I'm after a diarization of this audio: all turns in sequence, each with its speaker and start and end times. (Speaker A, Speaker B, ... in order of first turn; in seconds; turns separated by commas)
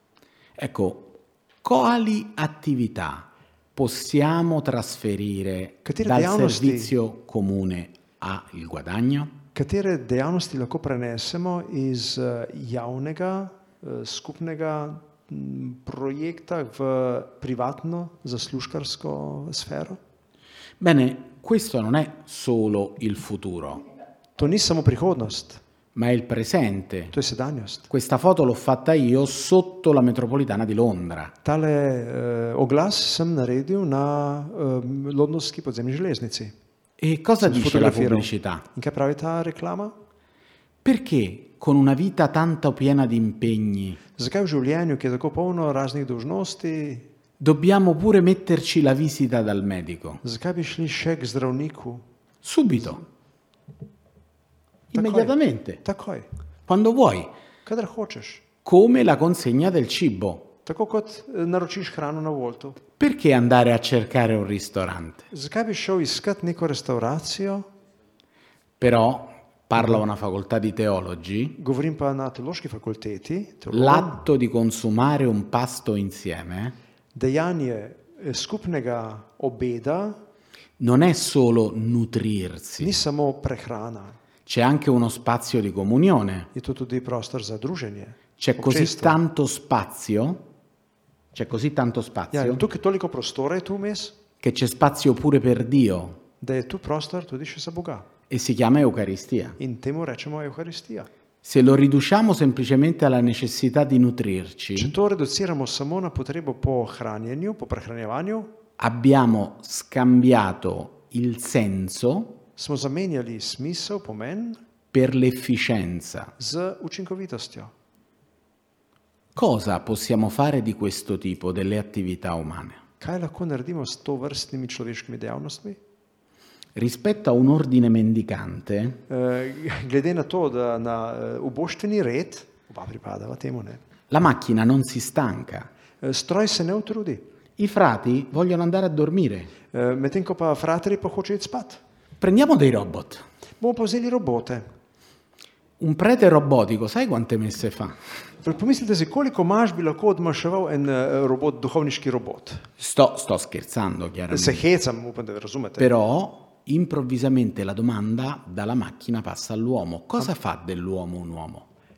Speaker A: 0.6-9.3, Speaker B: 5.8-6.9, Speaker B: 9.5-20.0, Speaker A: 20.8-23.8, Speaker B: 24.4-25.6, Speaker A: 25.9-27.1, Speaker B: 27.1-27.9, Speaker A: 27.9-31.3, Speaker B: 31.4-36.5, Speaker A: 37.0-38.6, Speaker B: 37.4-39.9, Speaker A: 40.8-44.0, Speaker B: 44.1-47.1, Speaker A: 47.4-50.2, Speaker B: 50.2-52.0, Speaker A: 52.4-53.0, Speaker A: 54.9-55.8, Speaker B: 54.9-56.3, Speaker A: 56.7-57.3, Speaker B: 57.6-58.4, Speaker A: 58.6-60.5, Speaker B: 60.6-62.8, Speaker A: 63.0-65.2, Speaker B: 65.3-67.7, Speaker A: 68.8-71.6, Speaker B: 71.6-74.2, Speaker A: 73.7-76.7, Speaker B: 77.1-80.2, Speaker A: 80.8-82.9, Speaker B: 82.8-84.2, Speaker A: 84.5-86.5, Speaker B: 86.5-89.2, Speaker A: 88.4-90.4, Speaker A: 91.3-92.6, Speaker B: 92.3-94.2, Speaker A: 94.4-96.2, Speaker B: 96.4-98.1, Speaker A: 98.3-99.6, Speaker B: 99.6-101.1, Speaker A: 101.4-104.9, Speaker B: 104.8-108.5, Speaker A: 108.8-112.4, Speaker B: 112.6-114.6, Speaker A: 114.9-116.3, Speaker B: 116.4-117.7, Speaker A: 119.3-122.8, Speaker B: 123.0-125.8, Speaker A: 126.8-129.0, Speaker B: 129.1-133.8, Speaker A: 134.1-135.7, Speaker B: 136.0-137.3, Speaker A: 137.6-139.5, Speaker B: 139.7-141.8, Speaker A: 142.2-143.2, Speaker B: 143.6-144.7, Speaker A: 145.8-147.9, Speaker B: 148.4-152.7, Speaker A: 152.8-154.6, Speaker B: 154.3-155.9, Speaker A: 155.8-161.7